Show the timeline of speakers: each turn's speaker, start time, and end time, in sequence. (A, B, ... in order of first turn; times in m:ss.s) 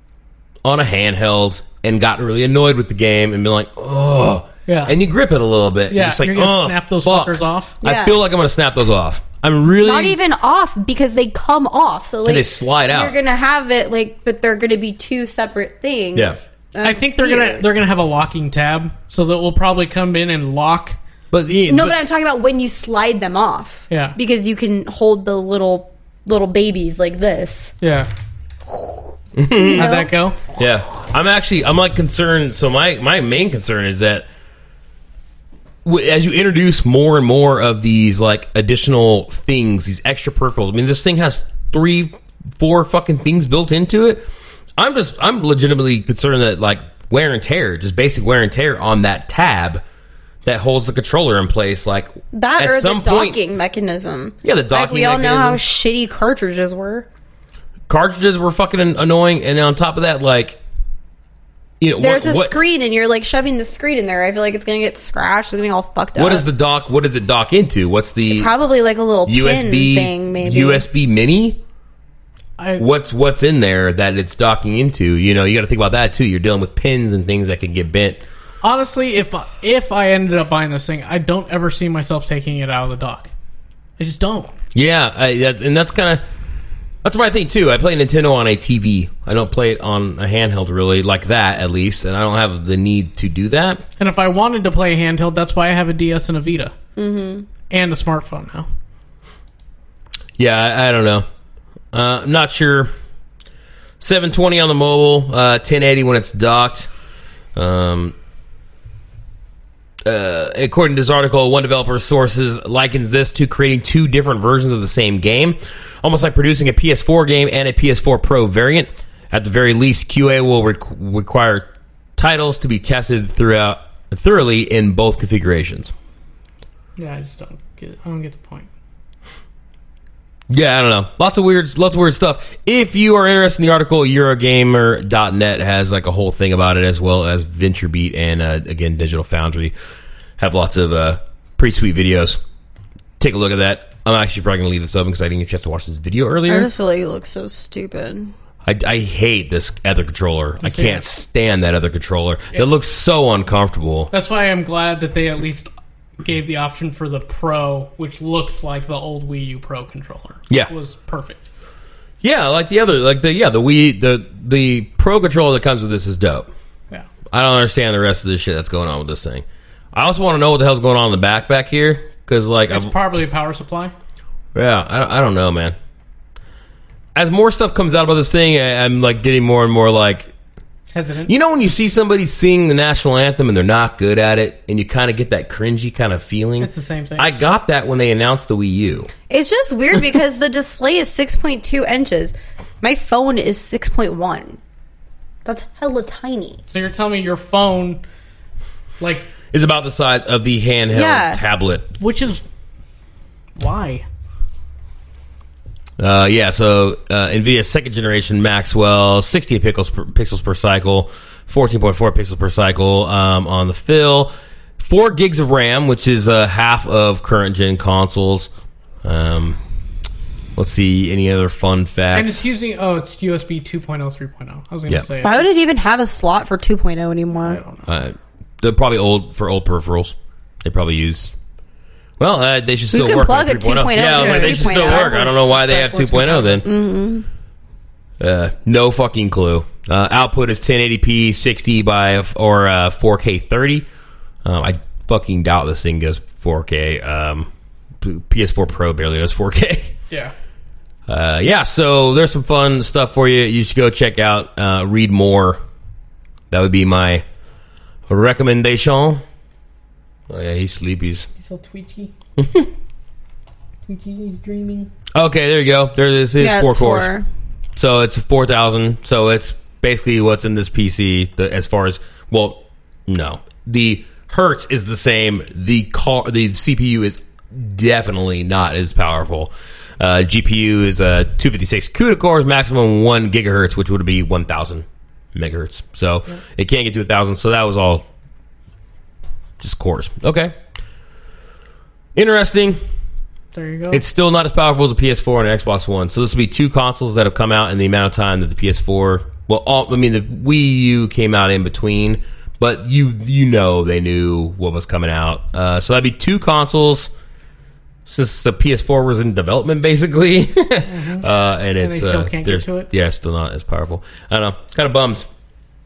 0:00.6-0:10.2 A
0:04.7-0:04.9 B
0:05.9-0:07.8 B
0:07.8-0:08.2 C
0:09.8-0:17.6 C
0:12.2-0:13.1 A
0:16.1-0:16.4 A
0:16.8-0:21.0 B
0:21.3-0:22.0 A
0:21.7-0:27.8 C
0:23.9-0:24.2 B
0:27.8-0:28.1 B
0:28.7-0:30.1 C
0:29.4-0:29.9 A
0:29.7-0:30.4 B
0:30.6-0:34.3 A
0:35.8-0:44.2 A
0:44.8-0:49.8 A
0:50.4-0:53.4 A
0:52.3-0:57.1 C
0:54.4-0:55.6 A
0:57.9-1:00.6 A
1:01.8-1:02.5 A
1:02.0-1:06.4 C
1:06.2-1:08.5 A
1:08.3-1:10.8 C
1:09.2-1:11.6 A
1:12.6-1:12.8 B
1:12.8-1:18.2 A
1:18.6-1:23.3 B
1:24.0-1:24.5 B
1:24.7-1:26.2 A
1:27.0-1:33.8 A
1:34.0-1:36.7 B
1:37.0-1:37.5 C
1:37.7-1:38.7 B
1:40.4-1:41.2 A
1:41.9-1:42.9 A
1:44.0-1:46.9 A
1:47.5-1:48.1 A
1:50.0-2:05.9 A
2:07.0-2:08.7 B
2:10.5-2:19.7 A
2:20.4-2:22.4 A
2:23.2-2:26.7 A
2:26.5-2:28.3 C
2:28.6-2:34.1 A
2:30.6-2:31.1 B
2:34.1-2:35.7 B
2:36.2-2:41.4 B
2:42.2-2:46.5 A
2:47.3-2:52.9 A
2:52.7-2:53.9 B
2:54.5-2:55.8 A
2:57.1-3:00.3 A
3:00.9-3:01.3 B
3:01.3-3:09.1 A
3:06.6-3:07.3 B
3:09.3-3:14.6 C
3:15.4-3:16.6 C
3:16.7-3:18.0 B
3:19.0-3:19.3 B
3:19.5-3:21.9 A
3:20.9-3:21.4 C
3:22.0-3:22.4 B
3:23.6-3:24.0 B
3:26.0-3:38.5 A
3:39.0-3:39.6 A
3:40.6-3:42.4 A
3:42.1-3:45.4 B
3:45.2-3:47.6 C
3:47.4-3:47.9 B
3:47.9-3:51.3 A
3:52.2-3:56.7 A
3:52.9-3:55.3 C
3:54.0-3:56.7 B
3:56.6-3:57.3 C
3:58.2-4:03.8 A
4:04.4-4:07.5 A
4:08.0-4:09.9 A
4:11.1-4:15.6 A
4:16.5-4:17.2 A
4:18.1-4:19.2 A
4:20.3-4:21.3 A
4:21.4-4:22.1 B
4:22.4-4:22.7 A
4:23.9-4:24.9 B
4:25.1-4:27.1 A
4:26.4-4:27.2 C
4:27.8-4:48.0 A
4:49.6-4:50.5 A
4:52.2-4:52.8 A
4:53.5-4:54.0 B
4:53.9-5:07.1 A
5:08.0-5:15.3 A
5:10.9-5:11.2 B
5:11.8-5:12.9 B